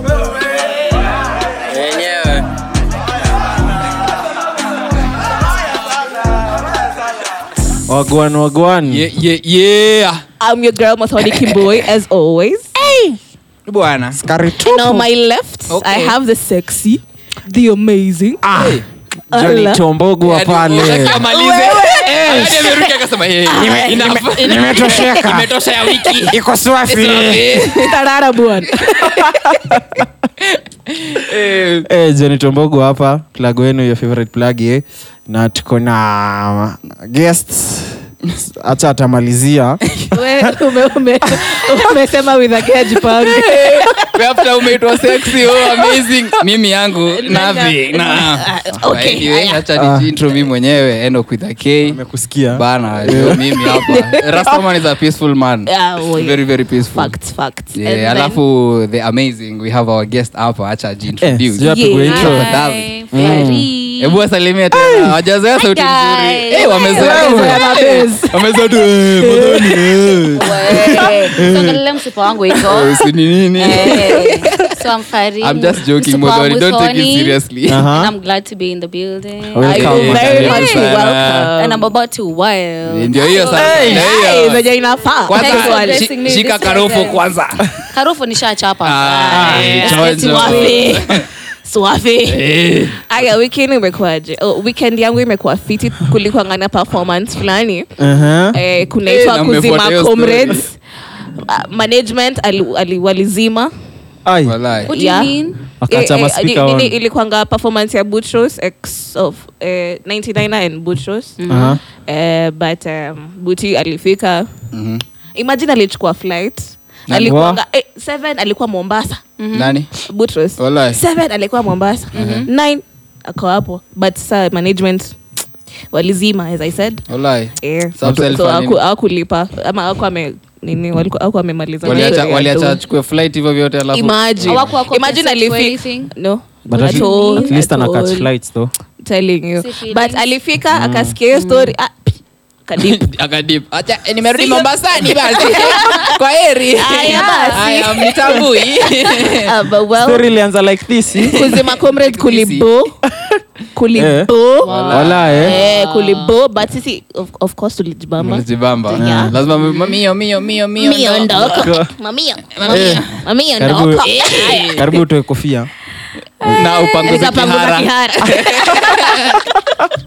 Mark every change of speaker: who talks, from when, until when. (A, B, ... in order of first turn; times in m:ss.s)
0:01.7-0:02.5 A
0:07.9-0:09.1 B
0:08.9-0:10.2 A
0:10.4-0:13.2 C
0:13.7-0:14.2 A
0:14.2-0:15.1 B
0:14.7-0:18.4 C
0:15.7-0:16.2 A
0:18.4-0:21.3 B
0:18.5-0:18.8 A
0:19.3-0:19.8 C
0:20.2-0:28.0 A
0:21.3-0:22.9 C
0:22.1-0:22.8 B
0:23.5-0:24.1 C
0:23.5-0:25.5 B
0:26.2-0:27.7 B
0:27.7-0:29.4 C
0:28.8-0:29.2 A
0:29.2-0:30.0 B
0:30.4-0:31.9 A
0:31.8-0:39.8 B
0:40.1-0:44.1 C
0:43.2-0:52.0 A
0:45.1-0:46.0 C
0:47.2-0:49.6 C
0:49.8-0:50.1 B
0:51.9-0:53.8 B
0:52.5-0:57.2 A
0:53.7-0:54.6 C
0:55.7-0:58.4 C
0:57.7-1:11.1 A
1:01.2-1:02.4 B
1:01.6-1:02.5 C
1:02.1-1:04.2 D
1:03.1-1:03.7 B
1:05.6-1:07.2 D
1:06.6-1:08.3 C
1:07.0-1:07.6 B
1:09.2-1:09.8 C
1:09.6-1:10.4 B
1:10.3-1:13.0 D
1:11.3-1:11.8 B
1:12.6-1:14.2 A
1:13.6-1:17.4 D
1:15.4-1:17.9 A
1:17.7-1:18.1 B
1:17.9-1:20.8 D
1:19.6-1:20.8 B
1:19.7-1:21.5 A
1:19.7-1:21.8 C
1:21.6-1:24.1 D
1:22.9-1:24.6 A
1:23.5-1:24.1 B
1:23.8-1:26.1 C
1:25.3-1:27.7 A
1:25.3-1:27.2 D
1:27.9-1:31.0 D
1:28.8-1:31.3 A
1:29.1-1:32.5 C
1:29.3-1:29.7 B
1:32.2-1:33.0 A
1:33.1-1:37.9 C
1:38.0-1:38.6 B
1:38.5-1:40.8 C
1:39.0-1:40.7 A
1:41.4-1:43.7 C
1:44.2-1:44.6 B
1:44.4-1:44.9 A
1:44.9-1:45.4 C
1:44.9-1:45.6 D
1:45.8-1:47.0 B
1:45.9-1:51.4 C
1:51.4-1:51.8 D
1:51.5-1:51.8 B
1:52.0-1:54.5 C
1:54.7-1:55.0 A
1:55.3-1:59.2 C
1:57.1-1:57.4 A
1:57.2-1:57.6 B
1:59.4-1:59.8 D
1:59.5-1:59.9 A
2:00.0-2:05.2 C
2:00.6-2:01.0 A
2:02.1-2:02.5 D
2:02.2-2:02.5 A
2:05.9-2:07.0 C
2:07.1-2:08.8 A
2:07.6-2:12.8 C
2:11.8-2:14.6 A
2:11.8-2:12.2 D
2:13.9-2:18.3 C
2:14.4-2:16.1 D
2:16.7-2:18.7 B
2:16.8-2:17.6 D
2:19.0-2:23.1 C
2:19.6-2:20.3 D
2:20.7-2:21.2 B
2:21.3-2:21.8 D
2:22.8-2:29.5 A
2:24.2-2:26.2 C
2:26.8-2:30.3 C
2:27.0-2:27.8 D
2:30.0-2:31.5 B
2:31.2-2:32.7 A
2:31.2-2:33.0 C
2:33.1-2:33.4 B
2:33.7-2:34.7 C
2:33.9-2:34.3 B
2:34.6-2:36.4 D
2:34.6-2:35.5 A
2:34.9-2:35.6 B
2:35.4-2:39.8 C
2:38.2-2:41.7 A
2:39.0-2:39.4 B
2:40.8-2:45.0 C
2:41.4-2:41.9 B
2:42.6-2:43.2 A
2:42.6-2:44.1 B
2:44.0-2:44.8 A
2:44.7-2:45.7 B
2:46.4-2:49.3 C
2:46.5-2:49.4 A